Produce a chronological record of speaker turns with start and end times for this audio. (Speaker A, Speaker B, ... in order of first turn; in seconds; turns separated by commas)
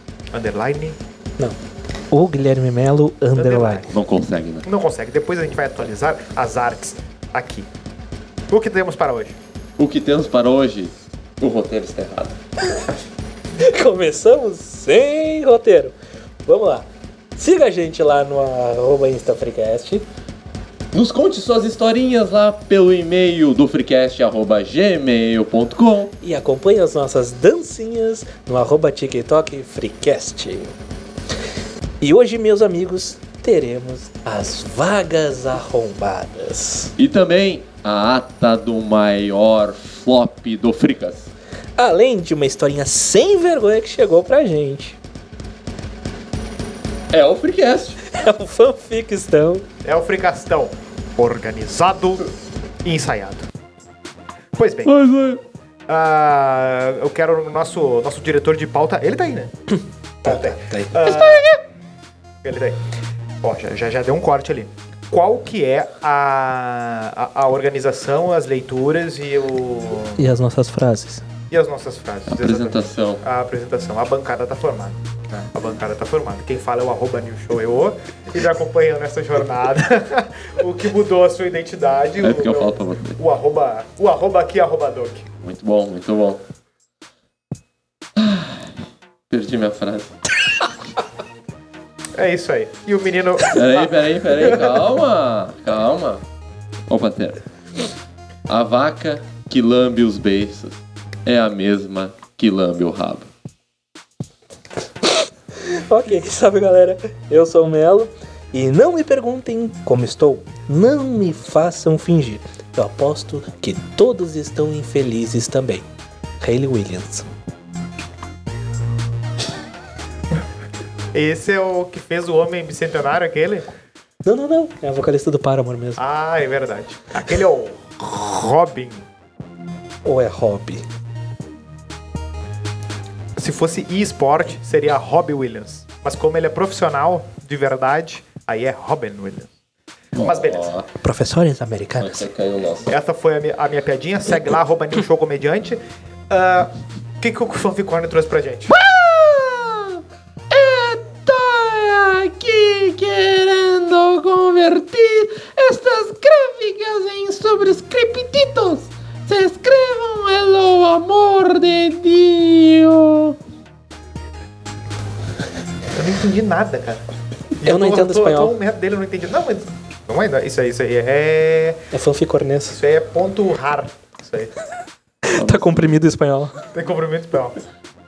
Speaker A: 0.3-1.0, Speaker B: 2.1-3.8, Speaker A: 3.4-4.0, Speaker C: 3.9-4.7, Speaker A: 4.6-7.7, Speaker A: 8.5-9.3, Speaker C: 9.8-12.4, Speaker B: 13.6-20.1, Speaker C: 20.9-26.1, Speaker B: 26.2-30.7, Speaker B: 32.0-36.9, Speaker C: 37.0-41.3, Speaker B: 41.8-45.0, Speaker C: 47.1-48.0, Speaker B: 48.0-49.6, Speaker A: 49.8-52.3, Speaker A: 52.8-53.5, Speaker A: 54.5-54.9, Speaker C: 54.8-55.4, Speaker A: 55.9-59.5, Speaker B: 60.2-61.2, Speaker A: 60.2-61.5, Speaker A: 62.4-62.9, Speaker A: 63.4-70.3, Speaker B: 70.2-71.2, Speaker A: 71.5-85.3, Speaker C: 72.3-73.2, Speaker C: 82.2-83.2, Speaker C: 85.4-86.4, Speaker C: 88.2-90.1, Speaker A: 92.2-94.8, Speaker C: 93.5-96.2, Speaker C: 96.9-97.4, Speaker C: 98.5-103.3, Speaker B: 105.6-115.8, Speaker B: 116.4-117.3, Speaker A: 121.1-123.7, Speaker B: 124.2-126.0, Speaker A: 126.0-129.0, Speaker B: 130.0-130.8, Speaker A: 133.4-139.5, Speaker C: 140.1-140.9, Speaker A: 140.2-140.7, Speaker B: 141.0-142.2, Speaker C: 142.0-142.9, Speaker A: 142.9-148.7, Speaker C: 148.7-163.4, Speaker A: 165.9-167.0, Speaker A: 167.6-171.8, Speaker B: 167.6-168.6, Speaker B: 171.9-172.8, Speaker A: 172.7-174.5, Speaker B: 175.2-176.7, Speaker C: 175.3-175.9, Speaker A: 176.7-177.6